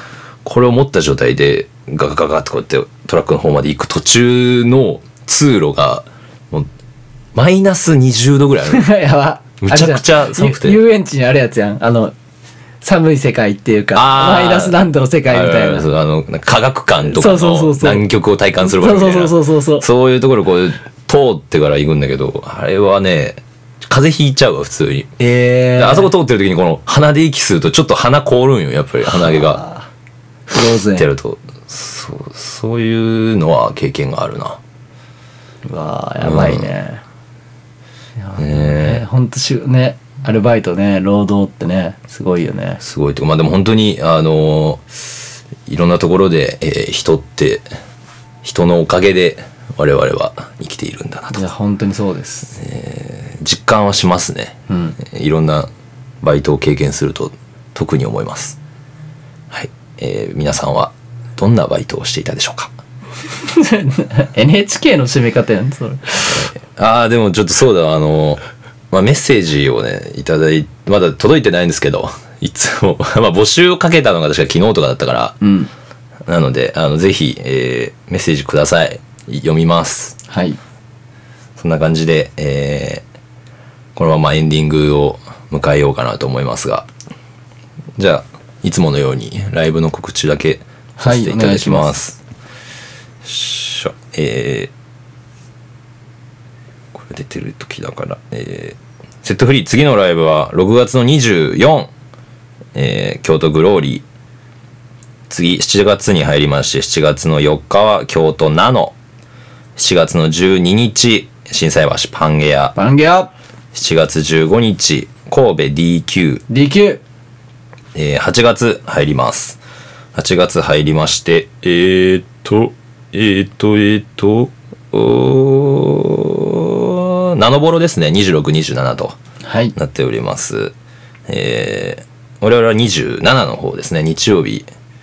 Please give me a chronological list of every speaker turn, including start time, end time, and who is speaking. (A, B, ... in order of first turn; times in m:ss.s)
0:00.4-0:06.7 A
0:07.3-0:08.8 A
0:08.7-0:12.1 B
0:09.6-0:10.8 A
0:12.8-0:15.8 B
0:13.9-0:25.1 A
0:17.0-0:18.1 B
0:18.6-0:19.8 B
0:25.2-0:26.1 B
0:25.8-0:29.6 A
0:29.0-0:29.8 B
0:30.5-0:31.0 B
0:30.9-0:34.6 A
0:35.6-0:37.0 B
0:36.2-0:36.7 A
0:38.2-0:42.8 B
0:38.4-0:39.0 A
0:42.8-0:45.0 A
0:45.6-0:47.6 A
0:48.4-0:51.4 A
0:51.3-0:52.5 B
0:52.6-0:55.7 A
0:54.7-0:55.0 B
0:56.2-0:58.6 A
0:59.5-1:02.7 A
1:03.3-1:06.5 B
1:06.3-1:15.4 A
1:15.4-1:15.7 B
1:16.3-1:20.2 A
1:20.3-1:20.6 B
1:21.6-1:23.0 A
1:23.9-1:26.9 A
1:28.0-1:32.2 A
1:31.0-1:32.0 B
1:33.2-1:34.7 A
1:36.9-1:41.9 A
1:42.7-1:44.0 A
1:45.3-1:48.9 A
1:49.8-1:52.8 A
1:52.7-1:53.3 B
1:53.7-1:56.4 A
1:56.5-1:57.0 B
1:57.9-1:59.6 A
2:00.1-2:09.2 A
2:09.4-2:09.7 B
2:09.7-2:10.7 A
2:11.3-2:14.6 A